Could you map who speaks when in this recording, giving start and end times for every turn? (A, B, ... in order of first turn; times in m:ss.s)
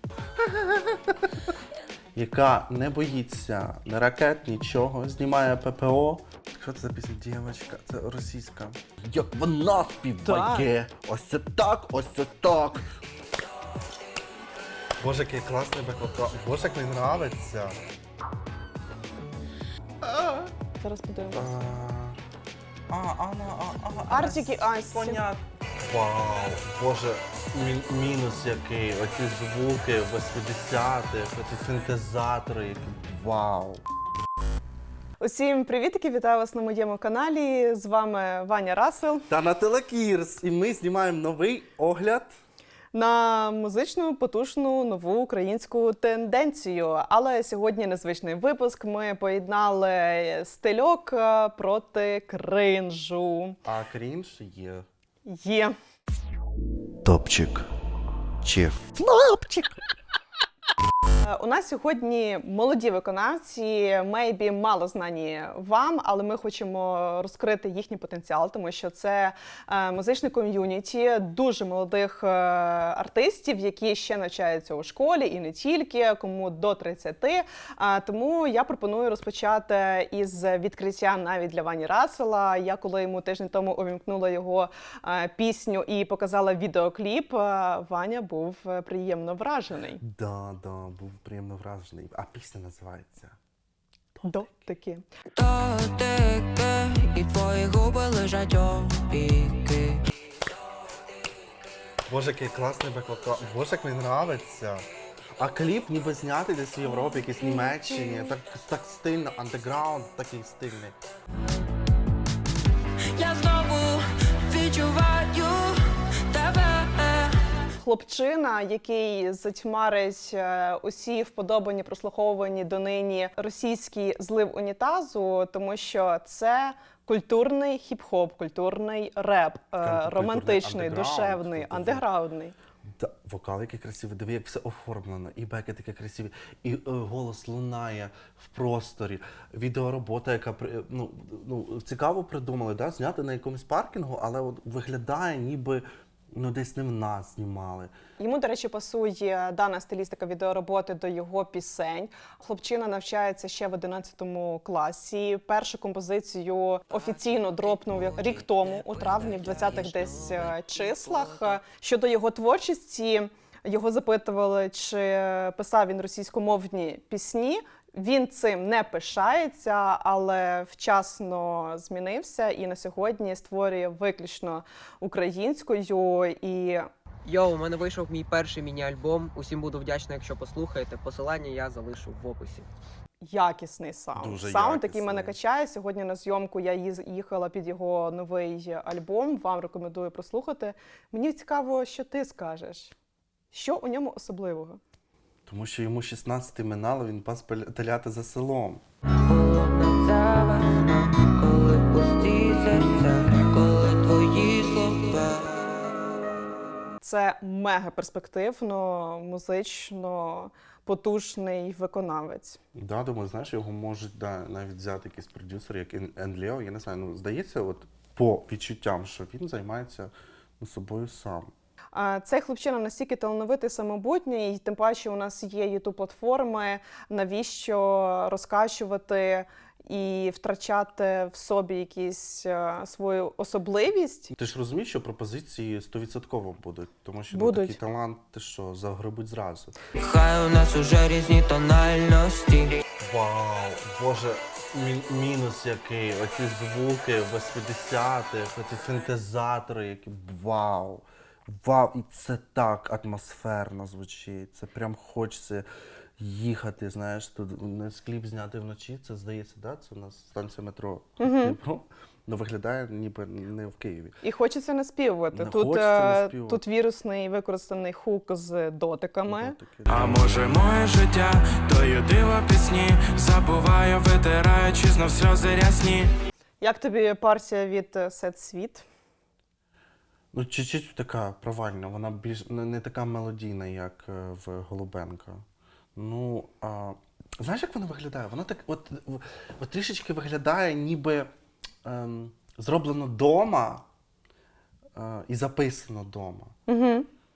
0:00.4-0:01.5 A
0:02.1-0:12.9 A
0:10.2-0:10.7 B
0:15.0-0:17.8 A
0:20.0-0:20.5 A
0:20.8-0:21.5 B
0:21.3-0:22.2 A
0:22.9-0:33.8 A
0:24.1-0:25.2 B
0:35.2-0:39.3 B
0:39.3-0:42.3 A
0:42.9-0:53.6 B
0:53.6-0:54.9 A
0:55.3-0:55.7 B
0:57.0-0:57.7 A
0:58.4-0:59.8 A
1:01.2-1:30.0 B
1:30.0-1:33.4 A
1:34.2-1:34.4 A
1:34.2-1:35.0 B
1:35.3-1:40.0 C
1:42.1-1:44.9 A
1:45.4-1:51.0 A
1:53.1-1:57.4 C
1:57.8-2:12.5 B
2:09.8-2:12.1 A
2:12.9-2:27.9 A
2:28.2-2:56.9 B
2:36.9-2:41.6 C
2:57.2-3:02.7 D
3:03.2-3:12.9 B
3:04.2-3:05.4 A
3:13.5-3:14.8 B
3:15.5-3:18.8 A
3:19.2-3:25.5 C
3:27.0-3:32.6 B
3:32.7-3:41.5 A
3:41.9-3:54.3 B
3:54.3-3:59.8 A
3:57.3-3:57.8 B
3:59.9-4:02.8 C
4:03.0-4:15.7 A
4:16.2-4:24.2 A
4:21.2-4:21.6 B
4:24.2-4:29.6 B
4:25.3-4:26.6 A
4:29.2-4:30.6 A
4:29.9-4:36.1 E
4:36.6-4:38.9 B
4:40.3-4:45.4 A
4:46.0-4:51.3 A
4:51.8-4:53.9 A
4:54.9-4:56.6 A
4:56.7-4:57.1 B